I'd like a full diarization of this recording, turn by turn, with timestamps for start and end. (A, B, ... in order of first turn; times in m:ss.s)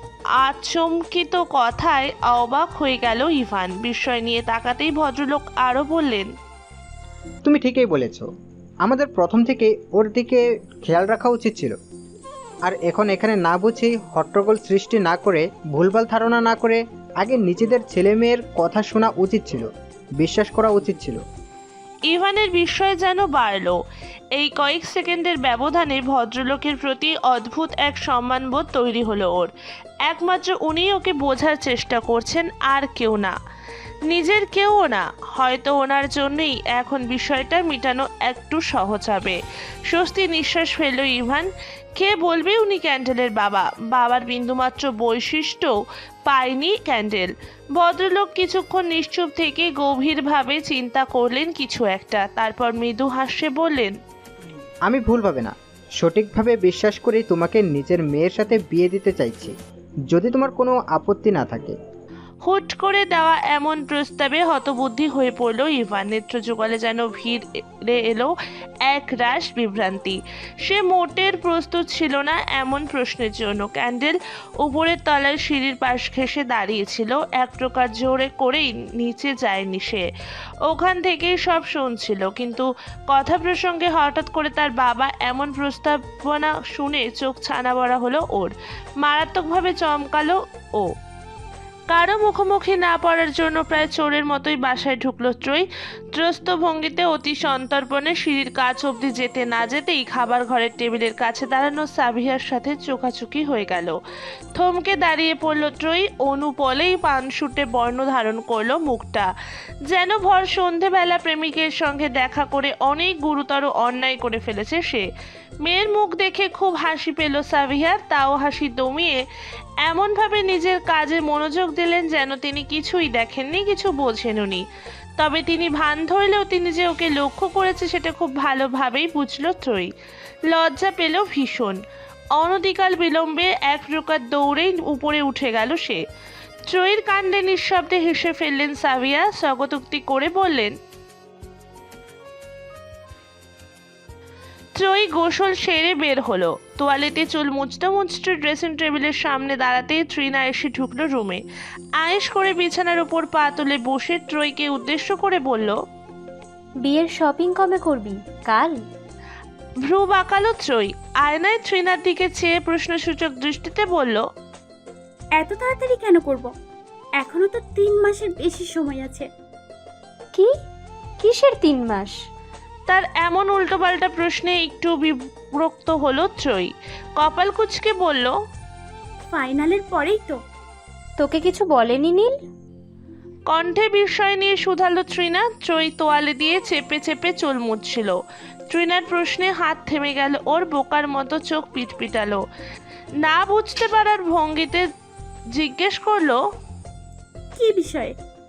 0:00.4-0:06.3 A
0:07.4-0:08.3 B
0:08.8-0:11.8 B
0:12.6-0:21.2 B
0:22.1-0:23.8 A
0:24.4-0:29.5 A
0:30.1-0:33.4 A
0:34.1-0:39.4 A
0:39.9-0:45.7 A
0:46.3-0:53.9 A
0:54.8-0:59.6 B
1:00.1-1:01.8 B
1:02.4-1:08.3 A
1:08.9-1:20.1 A
1:20.7-1:30.9 A
1:31.9-1:44.0 A
1:44.6-1:49.3 A
1:49.9-1:55.0 A
1:55.6-1:59.2 A
1:59.8-2:04.6 A
2:05.2-2:09.9 A
2:10.5-2:11.8 A
2:12.4-2:16.0 A
2:16.7-2:20.7 A
2:24.8-2:31.4 A
2:32.0-2:35.8 A
2:36.8-2:38.8 C
2:39.8-2:44.2 A
2:45.4-2:46.5 D
2:47.2-2:49.3 D
2:51.2-2:52.2 C
2:52.9-2:58.3 A
2:59.3-3:00.4 D
3:01.2-3:02.4 C
3:03.5-3:08.2 A
3:08.7-3:12.4 A
3:13.2-3:14.8 A
3:15.6-3:16.4 A
3:17.6-3:18.1 D